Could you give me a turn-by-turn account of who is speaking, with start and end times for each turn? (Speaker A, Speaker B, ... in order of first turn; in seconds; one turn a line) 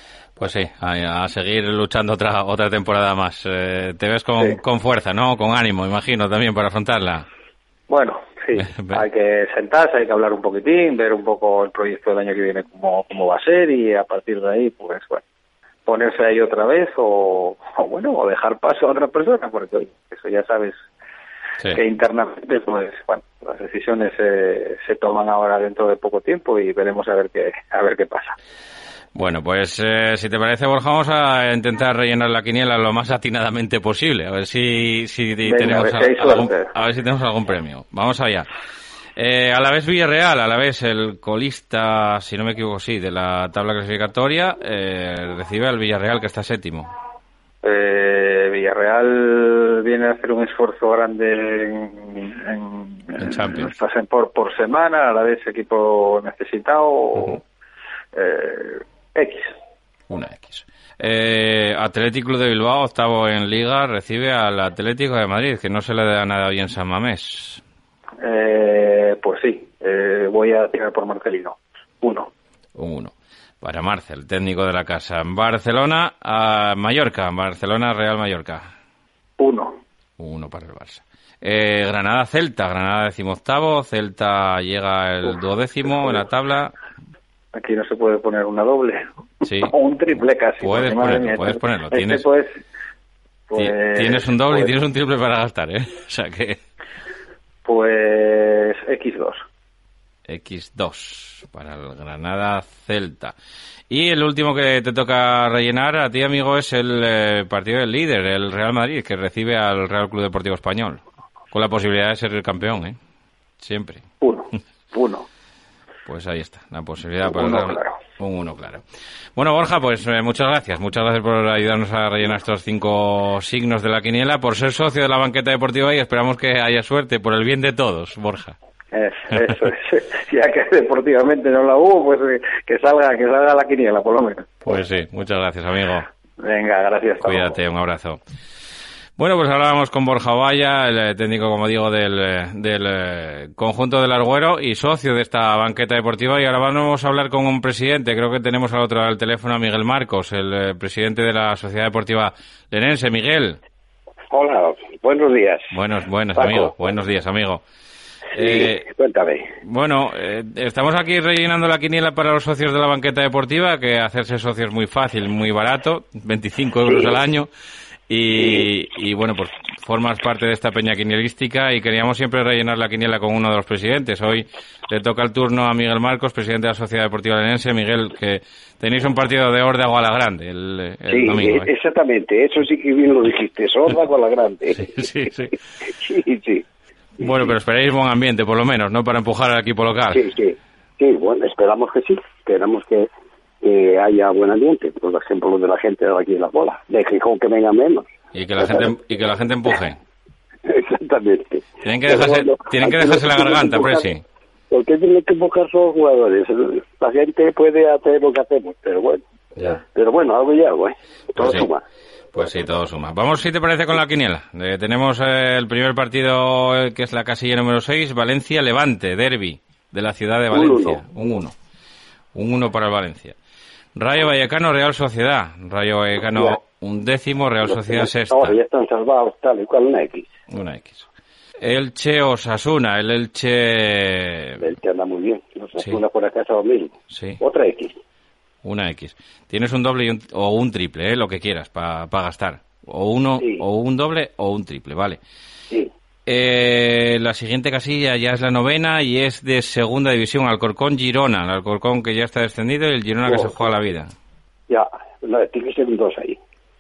Speaker A: 0.4-7.3
Speaker B: 7.9-15.2
Speaker A: 8.6-9.0
Speaker B: 15.9-20.8
Speaker B: 21.7-28.4
Speaker A: 29.2-38.5
Speaker B: 35.5-36.7
Speaker A: 39.2-46.9
Speaker B: 47.6-57.4
Speaker A: 53.2-53.8
Speaker B: 58.1-59.5
Speaker A: 60.1-67.6
Speaker B: 68.2-72.3
Speaker A: 72.8-78.7
Speaker B: 79.4-79.8
Speaker A: 80.2-86.7
Speaker B: 85.9-86.2
Speaker B: 87.5-92.6
Speaker A: 89.4-89.7
Speaker A: 90.6-92.2
Speaker B: 93.5-94.8
Speaker A: 93.6-96.6
Speaker B: 97.7-99.5
Speaker A: 100.3-103.3
Speaker A: 103.9-111.0
Speaker A: 111.5-113.0
Speaker A: 113.6-114.1
Speaker B: 114.2-115.2
Speaker A: 116.1-118.8
Speaker B: 117.2-118.0
Speaker A: 119.4-128.6
Speaker B: 128.9-134.6
Speaker A: 134.7-136.1
Speaker B: 136.4-137.6
Speaker A: 137.2-138.2
Speaker A: 139.2-153.6
Speaker C: 154.3-155.7
Speaker A: 155.7-157.6
Speaker C: 156.3-156.7
Speaker A: 158.3-158.9
Speaker C: 158.3-159.4
Speaker A: 159.6-167.5
Speaker A: 168.1-181.7
Speaker C: 168.4-168.6
Speaker C: 181.1-184.9
Speaker A: 184.7-185.5
Speaker C: 186.0-186.6
Speaker A: 187.2-190.2
Speaker C: 190.1-193.1
Speaker C: 193.6-198.9
Speaker A: 198.3-200.0
Speaker C: 200.7-204.1
Speaker A: 201.8-204.2
Speaker C: 204.7-211.8
Speaker A: 211.4-211.7
Speaker A: 212.3-221.6
Speaker C: 220.5-221.0
Speaker A: 222.3-223.3
Speaker A: 224.0-228.6
Speaker C: 227.7-230.3
Speaker A: 230.5-231.1
Speaker A: 231.6-234.6
Speaker C: 234.6-238.0
Speaker A: 237.1-237.4
Speaker A: 238.6-245.2
Speaker C: 243.4-243.7
Speaker A: 246.3-254.1
Speaker C: 253.3-253.5
Speaker C: 254.7-256.4